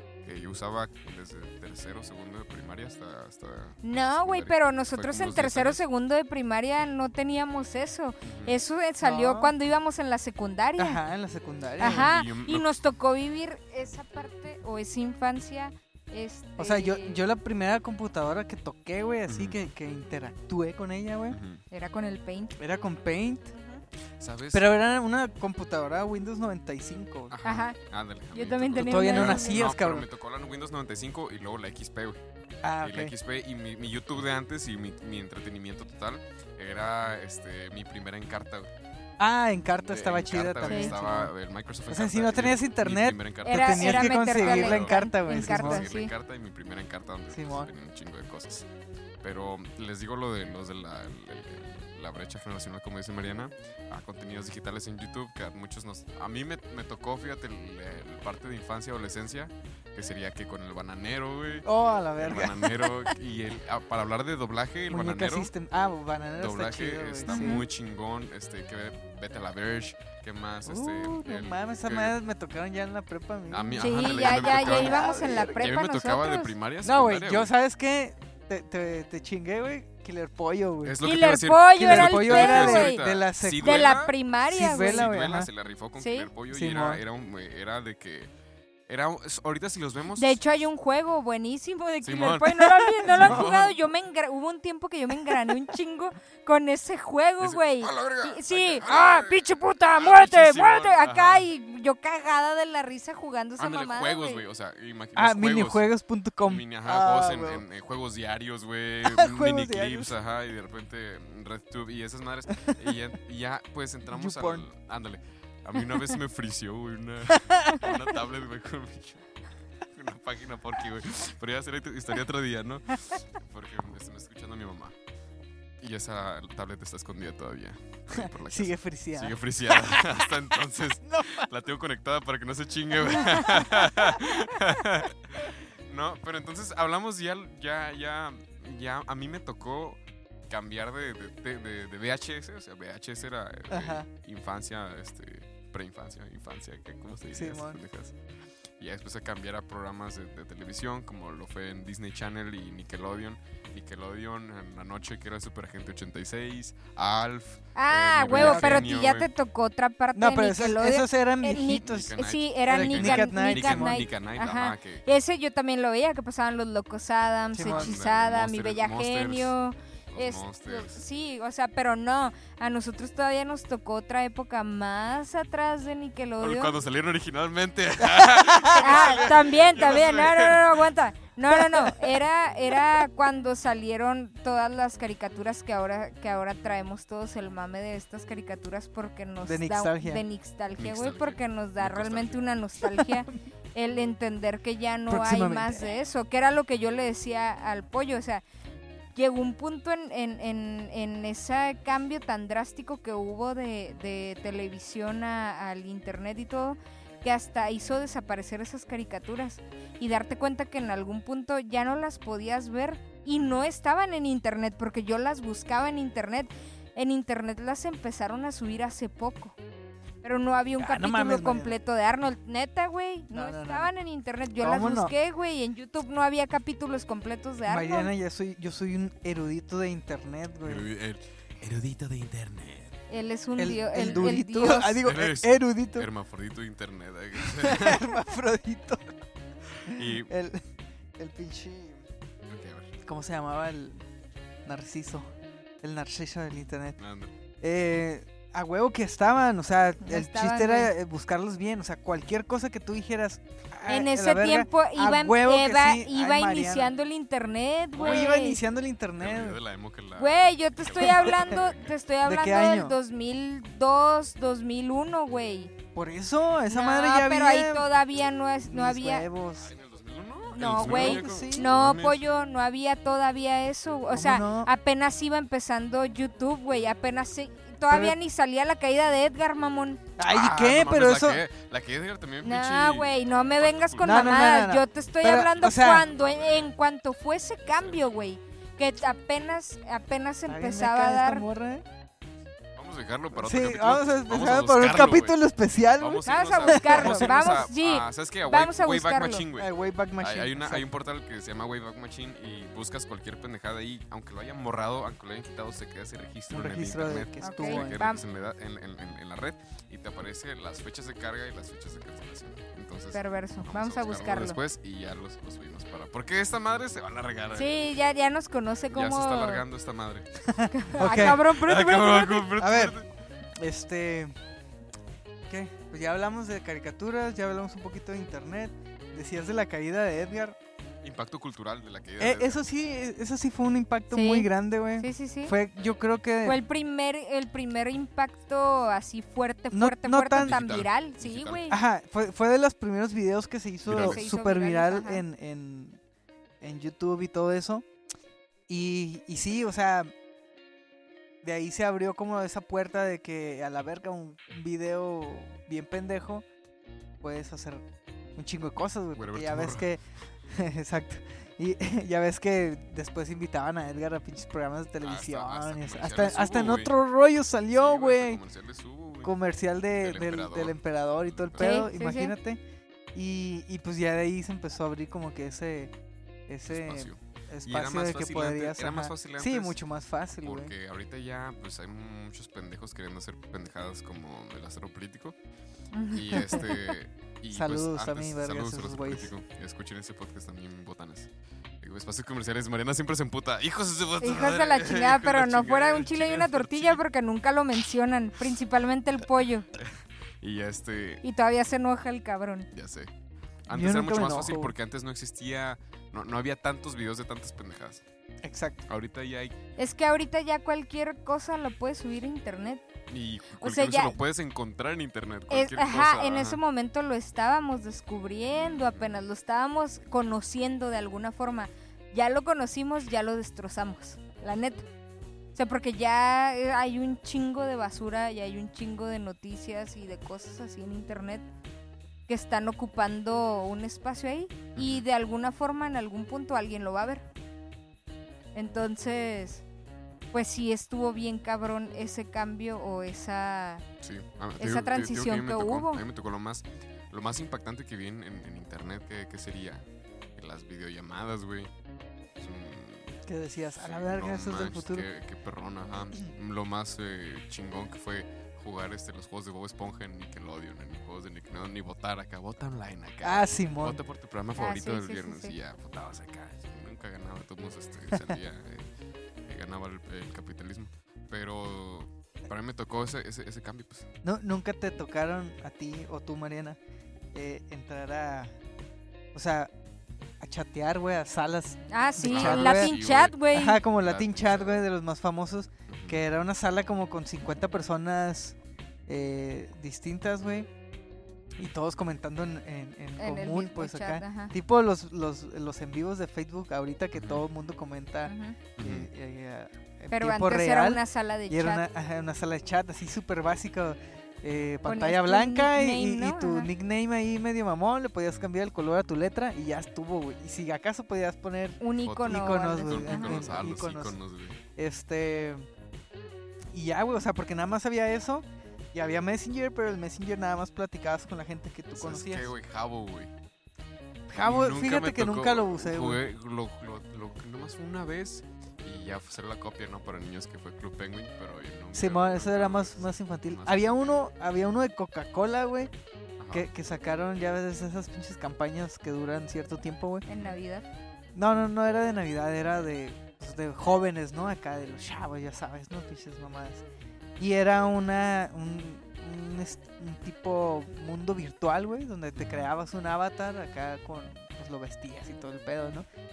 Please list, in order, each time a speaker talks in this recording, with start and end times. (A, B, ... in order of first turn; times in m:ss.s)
0:00.2-0:05.8 A
0:03.8-0:11.0 B
0:08.2-0:08.5 A
0:09.0-0:09.5 C
0:10.8-0:12.1 C
0:11.8-0:12.7 A
0:11.8-0:17.2 B
0:16.6-0:21.4 C
0:19.3-0:19.6 A
0:21.3-0:21.6 A
0:21.7-0:22.6 B
0:22.6-0:23.5 C
0:23.5-0:23.8 B
0:24.2-0:24.7 A
0:24.5-0:27.3 C
0:27.3-0:32.2 A
0:27.4-0:27.8 B
0:28.3-0:29.6 B
0:28.8-0:30.1 C
0:32.6-0:33.1 C
0:32.8-0:38.7 A
0:39.2-0:41.3 C
0:39.8-0:48.7 A
0:40.6-0:40.9 B
0:41.9-0:45.9 C
0:43.5-0:46.1 B
0:47.3-0:47.7 C
0:49.2-1:05.5 A
1:01.6-1:03.1 C
1:04.9-1:07.6 C
1:06.4-1:12.2 A
1:07.3-1:07.6 B
1:10.6-1:15.6 C
1:13.5-1:17.5 A
1:13.8-1:16.5 B
1:16.8-1:21.0 C
1:20.8-1:28.3 A
1:21.0-1:23.0 B
1:21.8-1:25.5 C
1:23.6-1:25.1 B
1:26.0-1:26.3 B
1:26.5-1:27.0 C
1:28.9-1:30.4 A
1:30.2-1:44.4 B
1:32.0-1:33.8 A
1:33.0-1:33.5 C
1:37.4-1:41.5 A
1:43.6-1:45.9 A
1:45.2-1:47.6 C
1:46.4-1:59.2 A
1:49.0-1:50.1 C
1:54.1-1:54.7 C
1:57.3-1:58.0 C
1:59.8-2:05.0 A
2:05.8-2:20.0 A
2:08.2-2:10.4 C
2:11.0-2:11.5 C
2:13.2-2:14.0 C
2:20.5-2:28.2 A
2:23.7-2:24.0 C
2:27.3-2:27.8 C
2:28.8-2:39.3 A
2:37.8-2:56.8 B
2:38.3-2:38.9 C
2:40.1-2:44.0 C
2:41.7-2:45.0 A
2:47.5-2:48.0 C
2:47.6-2:49.5 A
2:50.1-2:51.0 A
2:56.4-3:00.8 A
2:58.1-2:58.9 C
2:58.8-3:18.4 B
3:09.4-3:10.2 C
3:10.8-3:12.9 A
3:15.1-3:15.9 C
3:19.2-3:39.6 B
3:33.4-3:33.6 A
3:40.2-3:48.1 B
3:40.8-3:41.8 C
3:43.3-3:43.9 C
3:44.6-3:45.1 C
3:47.7-3:50.9 C
3:50.6-3:53.0 A
3:53.1-3:55.0 B
3:53.6-3:56.1 C
3:54.1-3:58.0 A
3:57.4-3:59.0 C
3:59.8-4:00.3 A
3:59.9-4:00.6 C
4:01.2-4:02.0 C
4:02.5-4:02.9 A
4:03.0-4:04.0 C
4:04.6-4:05.3 C
4:05.8-4:07.0 C
4:07.0-4:07.3 A
4:07.6-4:16.9 C
4:10.0-4:10.9 B
4:13.9-4:18.6 B
4:18.0-4:18.3 A
4:18.0-4:19.6 C
4:19.2-4:21.9 A
4:20.2-4:25.7 B
4:21.0-4:21.4 C
4:22.2-4:23.0 C
4:26.0-4:27.9 C
4:26.7-4:29.3 B
4:28.6-4:29.7 C
4:29.6-4:32.2 A
4:30.5-4:40.0 B
4:30.7-4:31.7 C
4:34.1-4:34.7 C
4:37.9-4:38.2 C
4:40.2-4:41.4 C
4:40.2-4:44.4 A
4:42.4-4:51.4 B
4:44.0-4:46.0 C
4:45.8-4:46.7 A
4:47.7-4:48.0 A
4:50.5-4:51.9 C
4:52.8-5:17.8 A
4:53.4-4:57.6 C
4:56.2-4:59.4 B
4:59.5-5:00.9 C
5:06.5-5:08.0 C
5:07.4-5:08.2 B
5:13.1-5:14.6 B
5:17.5-5:19.6 B
5:18.9-5:20.3 A
5:20.5-5:21.4 C
5:20.7-5:22.5 B
5:21.0-5:23.1 A
5:22.6-5:23.0 C
5:23.6-5:24.4 C
5:25.5-5:30.6 C
5:31.0-5:32.6 A
5:32.2-5:36.6 C
5:34.1-5:35.5 B
5:36.4-5:41.8 B
5:39.7-5:40.6 C
5:40.4-5:41.7 A
5:41.7-5:46.0 C
5:43.8-5:44.2 A
5:43.9-5:45.2 B
5:46.6-5:47.8 C
5:48.7-5:50.1 C
5:51.4-5:56.4 C
5:57.2-6:08.4 C
5:59.1-5:59.9 A
6:05.0-6:06.9 A
6:07.7-6:09.4 A
6:09.2-6:12.6 C
6:09.9-6:11.9 A
6:11.6-6:12.3 B
6:13.1-6:15.9 C
6:16.5-6:20.7 C
6:16.7-6:19.8 A
6:20.4-6:25.4 A
6:25.9-6:26.8 B
6:26.1-6:31.3 A
6:26.3-6:26.7 C
6:27.5-6:29.3 C
6:31.8-6:37.0 A
6:34.2-6:39.7 B
6:40.4-6:41.2 A
6:41.2-6:42.7 B
6:42.7-6:43.1 A
6:43.7-6:48.0 A
6:43.7-6:44.7 C
6:48.4-6:48.8 C
6:48.9-6:49.6 A
6:49.8-6:52.8 B
6:53.1-6:56.6 A
6:53.6-6:54.2 B
6:55.5-7:04.9 B
6:58.5-6:59.2 A
7:05.5-7:11.5 B
7:12.3-7:17.2 B
7:14.8-7:15.0 A
7:18.5-7:19.6 B
7:20.3-7:23.9 B
7:24.0-7:29.8 A
7:24.6-7:26.0 B
7:30.4-7:31.7 A
7:32.4-7:33.2 A
7:33.2-7:35.0 C
7:33.8-7:48.9 A
7:43.2-7:44.0 C
7:44.6-7:45.5 B
7:48.1-7:48.4 C
7:49.4-7:54.1 A
7:54.2-7:56.8 C
7:57.3-7:58.5 C
7:59.3-7:59.7 C
8:00.4-8:03.0 C
8:01.9-8:03.8 B
8:02.2-8:04.9 A
8:03.5-8:08.6 C
8:05.9-8:06.2 A
8:09.1-8:10.7 C
8:11.6-8:34.2 C
8:13.2-8:14.5 B
8:17.1-8:17.4 A
8:18.2-8:18.6 B
8:18.8-8:19.1 A
8:20.1-8:21.8 B
8:24.8-8:26.7 B
8:31.8-8:33.5 B
8:32.0-8:34.6 A
8:34.8-8:35.7 C
8:36.7-8:42.5 C
8:42.0-8:43.3 A
8:44.3-8:46.2 C
8:44.4-8:54.2 A
8:51.9-8:55.9 C
8:56.4-8:56.7 A
8:56.5-9:00.2 C
9:00.2-9:00.9 B
9:01.4-9:06.8 C
9:07.4-9:16.0 C
9:12.4-9:12.7 A